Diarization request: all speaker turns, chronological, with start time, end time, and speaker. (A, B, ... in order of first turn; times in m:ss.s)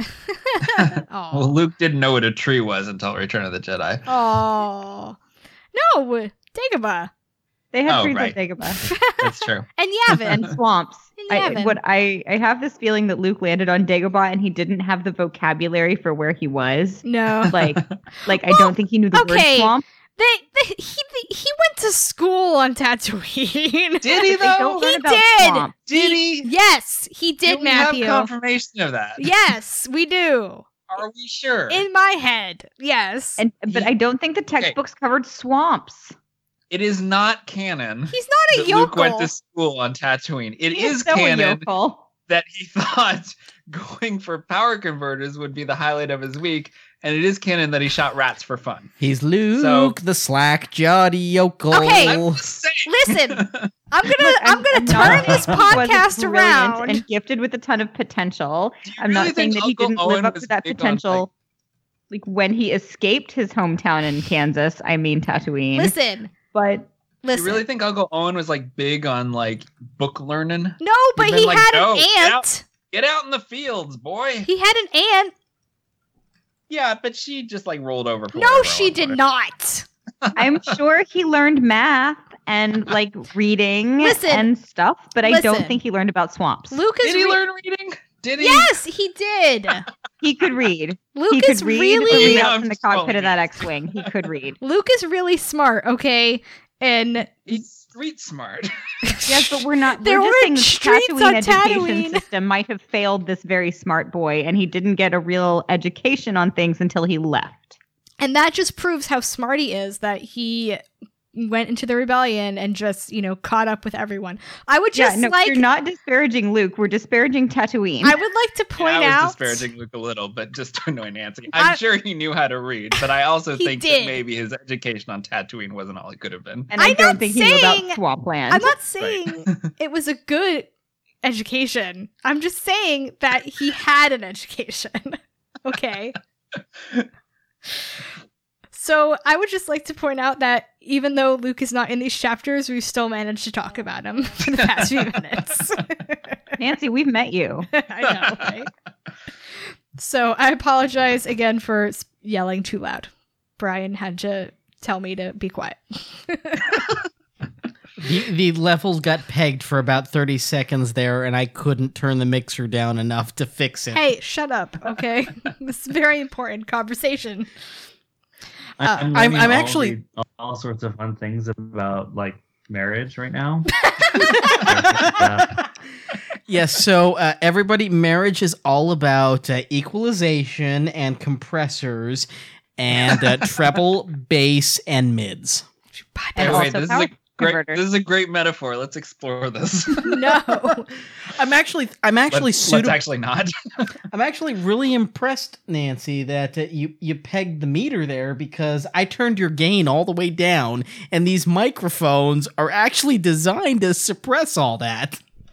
0:00.3-0:01.6 A
0:00.7-0:04.1 B
0:04.1-0:05.2 A
0:05.7-0:07.1 A
0:07.7-0:08.8 C
0:07.9-0:08.4 B
0:08.8-0:10.5 A
0:09.1-0:09.7 B
0:10.3-0:19.8 C
0:11.2-0:11.8 A
0:17.0-0:17.6 A
0:18.4-0:25.7 A
0:24.0-0:24.9 B
0:24.2-0:26.2 C
0:25.9-0:26.5 B
0:26.4-0:28.3 A
0:27.5-0:29.3 B
0:29.2-0:30.6 A
0:30.9-0:31.8 B
0:31.7-0:33.4 A
0:33.4-0:36.1 C
0:36.7-0:41.6 B
0:38.1-0:39.3 A
0:40.8-0:42.0 C
0:42.3-0:48.9 B
0:49.0-0:52.4 D
0:49.6-0:50.0 B
0:51.7-0:52.2 A
0:52.0-0:53.7 B
0:52.8-0:57.0 A
0:54.2-1:01.3 C
0:58.9-1:01.3 B
1:02.1-1:06.0 C
1:05.8-1:06.3 A
1:06.5-1:06.9 C
1:07.2-1:07.6 A
1:07.3-1:14.5 B
1:10.8-1:12.6 A
1:14.4-1:15.3 A
1:16.7-1:19.2 B
1:18.3-1:19.9 A
1:20.2-1:20.7 B
1:20.4-1:26.8 C
1:24.0-1:24.5 A
1:25.2-1:25.8 A
1:26.7-1:27.4 A
1:27.0-1:28.7 B
1:28.4-1:29.9 A
1:30.2-1:34.6 C
1:31.2-1:32.5 A
1:32.1-1:33.7 B
1:34.6-1:37.6 A
1:37.5-1:38.7 B
1:39.3-1:47.8 C
1:40.0-1:42.2 A
1:48.2-1:50.8 A
1:51.3-1:55.6 A
1:54.9-1:58.2 C
1:58.0-1:59.7 A
1:58.8-2:06.7 B
2:01.5-2:01.8 A
2:03.6-2:04.2 A
2:06.7-2:08.7 C
2:06.8-2:10.7 A
2:09.0-2:09.7 B
2:11.2-2:16.2 A
2:18.7-2:26.4 A
2:26.6-2:27.7 C
2:27.7-2:28.7 A
2:28.2-2:28.5 B
2:30.0-2:37.0 A
2:38.0-2:44.0 D
2:43.9-2:47.5 A
2:48.8-2:53.9 E
2:49.1-2:50.0 D
2:54.4-2:55.6 E
2:56.5-3:05.6 D
3:06.2-3:06.7 A
3:06.4-3:07.8 C
3:06.4-3:10.3 B
3:10.0-3:10.9 A
3:11.3-3:13.0 D
3:12.3-3:13.9 B
3:14.1-3:25.2 D